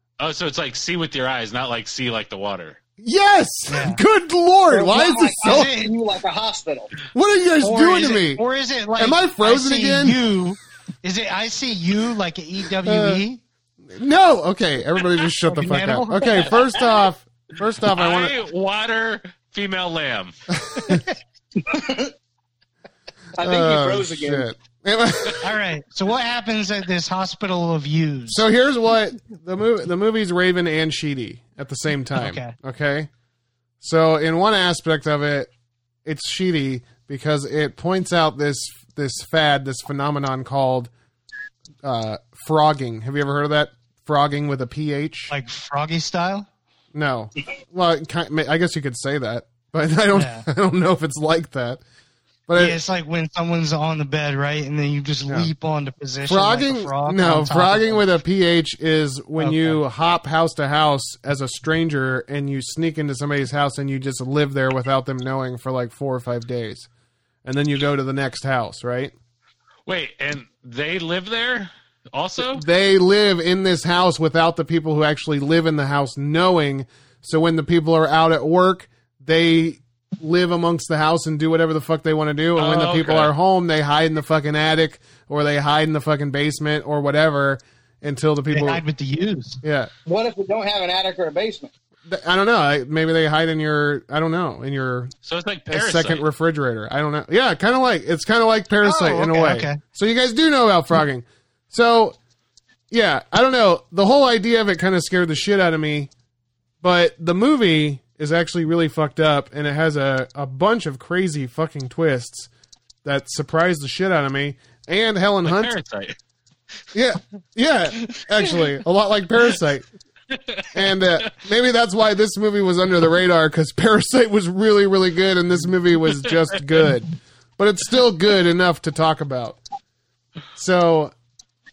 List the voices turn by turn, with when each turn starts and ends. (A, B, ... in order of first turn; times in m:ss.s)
0:00.2-0:02.8 A
0:03.0-0:05.7 B
0:03.7-0:04.0 C
0:04.7-0:06.9 D
0:05.4-0:05.9 C
0:07.1-0:08.4 B
0:07.6-0:13.4 C
0:09.0-0:10.2 B
0:12.8-0:13.2 B
0:13.8-0:18.3 B
0:15.5-0:16.5 C
0:17.9-0:20.3 A
0:20.6-0:21.0 B
0:20.8-0:21.1 C
0:21.6-0:22.1 D
0:23.4-0:24.5 D
0:23.4-0:25.5 B
0:25.4-0:28.4 C
0:28.3-0:33.1 B
0:32.2-0:32.5 C
0:33.8-0:35.5 B
0:36.0-0:40.9 B
0:41.8-0:45.3 B
0:45.3-0:46.5 C
0:46.9-0:51.8 B
0:50.1-0:50.5 C
0:52.5-0:52.8 B
0:52.5-0:58.0 C
0:56.2-1:06.9 B
0:59.4-0:59.8 C
1:07.4-1:09.1 B
1:09.8-1:12.6 A
1:12.5-1:28.8 B
1:22.6-1:23.3 A
1:28.5-1:29.6 C
1:29.6-1:29.9 B
1:30.0-1:31.7 D
1:32.0-1:35.1 B
1:35.2-1:36.2 A
1:35.7-1:42.2 B
1:38.8-1:39.8 C
1:42.9-1:46.1 B
1:46.8-1:52.5 B
1:53.0-1:55.7 B
1:55.4-1:56.2 A
1:56.9-1:59.8 B
1:58.1-1:58.6 A
2:00.3-2:01.3 A
2:00.7-2:09.6 B
2:10.6-2:11.1 B